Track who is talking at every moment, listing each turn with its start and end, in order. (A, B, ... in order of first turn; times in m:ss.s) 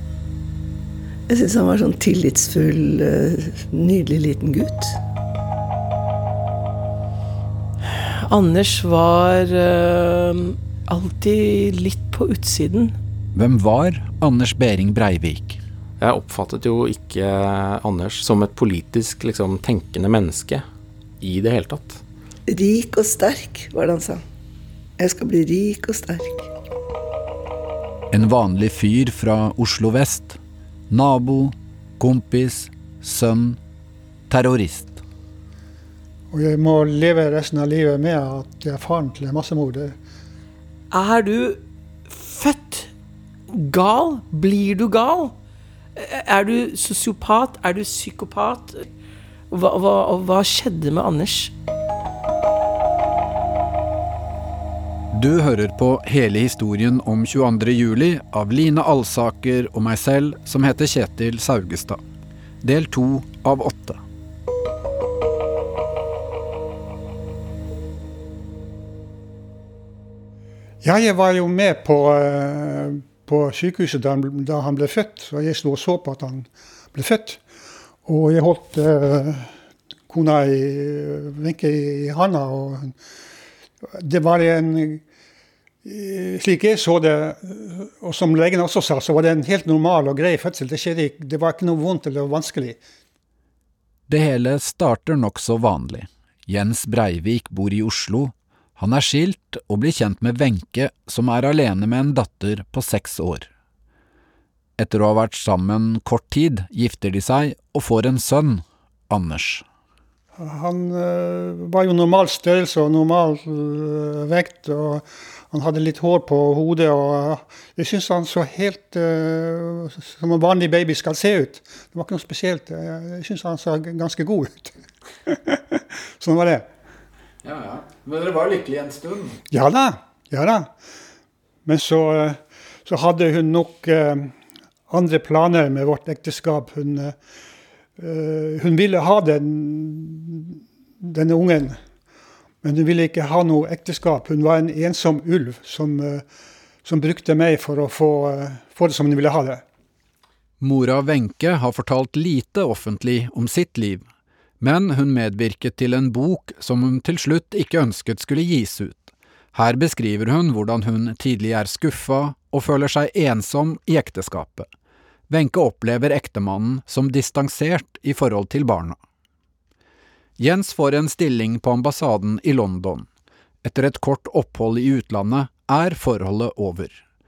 0:01.3-0:05.0 A
0:07.9-0:13.0 B
0:13.3-0:15.6 C
0:16.0-0:20.6 D
0:21.2-0:22.0 D
0:22.5-0:24.2 A
0:25.0-0:26.5 A
0:28.1-0:30.4 C
0:30.9-0:33.6 C
0:34.3-0:35.0 C
0:36.3-0:40.0 E
0:40.9-0:42.9 B
0:43.5-0:45.3 B
0:46.0-0:48.8 B
0:49.5-0:51.5 B
0:55.1-1:02.0 C
1:02.6-1:04.0 C
1:10.8-1:17.4 E
1:18.0-1:19.5 E
1:20.1-1:22.9 E
1:23.9-1:25.0 E
1:25.8-1:32.8 E
1:34.1-1:43.5 C
1:44.8-1:49.6 C
1:50.4-2:04.7 E
2:05.3-2:06.7 E
2:07.4-2:09.4 C
2:09.5-2:10.7 E
2:11.6-2:14.3 E
2:14.9-2:17.1 E
2:18.0-2:21.8 E
2:22.6-2:26.2 E
2:26.8-2:29.6 E
2:30.6-2:34.0 C
2:34.6-2:44.7 C
2:45.3-2:49.0 C
2:50.4-2:53.1 C
2:53.6-2:57.0 C